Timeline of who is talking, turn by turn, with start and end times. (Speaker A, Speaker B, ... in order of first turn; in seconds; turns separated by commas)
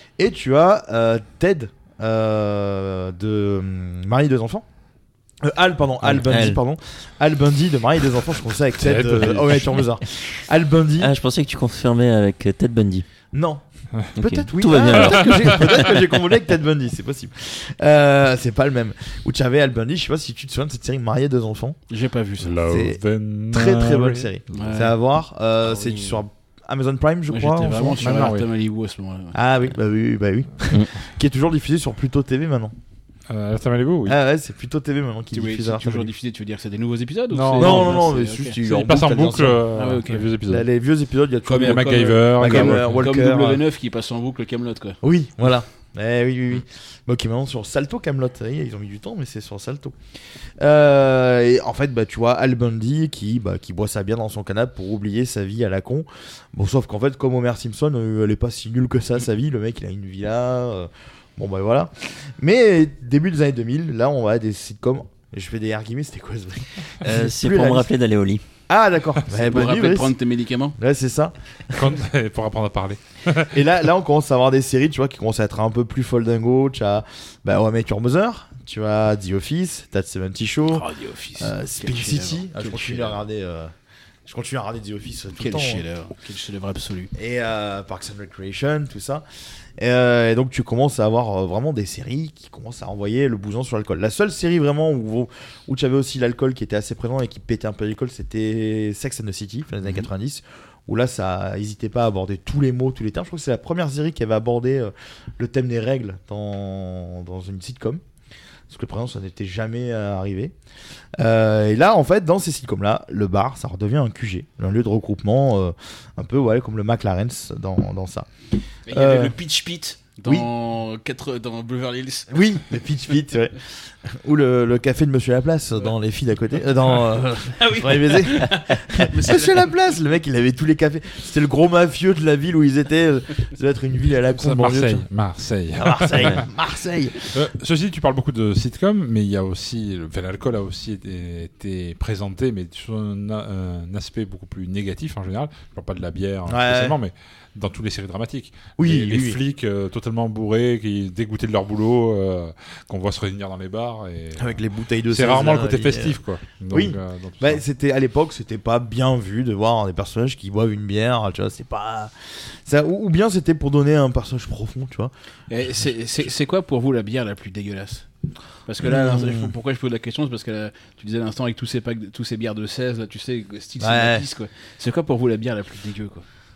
Speaker A: 0.2-4.7, Speaker A: 5.4-11.1, Speaker B: 6.0-6.6, Speaker C: 8.8-9.8, Speaker B: 11.0-13.1, Speaker A: 13.3-13.6, Speaker A: 14.2-21.8, Speaker B: 14.2-16.0, Speaker C: 14.9-15.9, Speaker D: 21.9-22.6, Speaker C: 22.4-24.3, Speaker A: 22.7-28.2, Speaker D: 24.5-25.0, Speaker D: 25.7-26.2, Speaker D: 27.3-29.4, Speaker C: 28.0-28.5, Speaker A: 29.3-32.7, Speaker C: 33.3-34.2, Speaker A: 34.1-36.1, Speaker D: 35.3-38.6, Speaker C: 37.3-38.0, Speaker A: 37.6-39.6, Speaker C: 38.6-40.7, Speaker D: 39.8-40.3, Speaker A: 40.5-43.6, Speaker D: 41.5-45.0, Speaker C: 41.6-43.1, Speaker A: 45.0-50.0, Speaker A: 50.6-67.9, Speaker B: 67.0-68.4, Speaker A: 68.7-70.1, Speaker D: 69.3-70.8, Speaker A: 70.8-71.8, Speaker C: 71.7-73.6, Speaker A: 73.5-80.9, Speaker D: 80.7-83.2, Speaker A: 81.4-83.7, Speaker A: 84.3-85.8, Speaker D: 85.3-87.1, Speaker A: 87.2-89.2, Speaker A: 89.8-108.0, Speaker A: 108.7-110.5, Speaker A: 111.2-118.3, Speaker D: 118.9-122.4, Speaker A: 118.9-119.4, Speaker A: 122.3-135.1, Speaker D: 127.6-129.7, Speaker C: 134.2-136.5, Speaker A: 135.8-137.3, Speaker C: 137.3-154.6, Speaker A: 146.5-147.0, Speaker A: 148.8-149.4, Speaker A: 154.4-156.2, Speaker C: 155.1-157.6, Speaker A: 156.7-165.1, Speaker D: 165.5-168.1, Speaker D: 168.7-176.2, Speaker A: 168.8-169.5, Speaker A: 173.8-174.2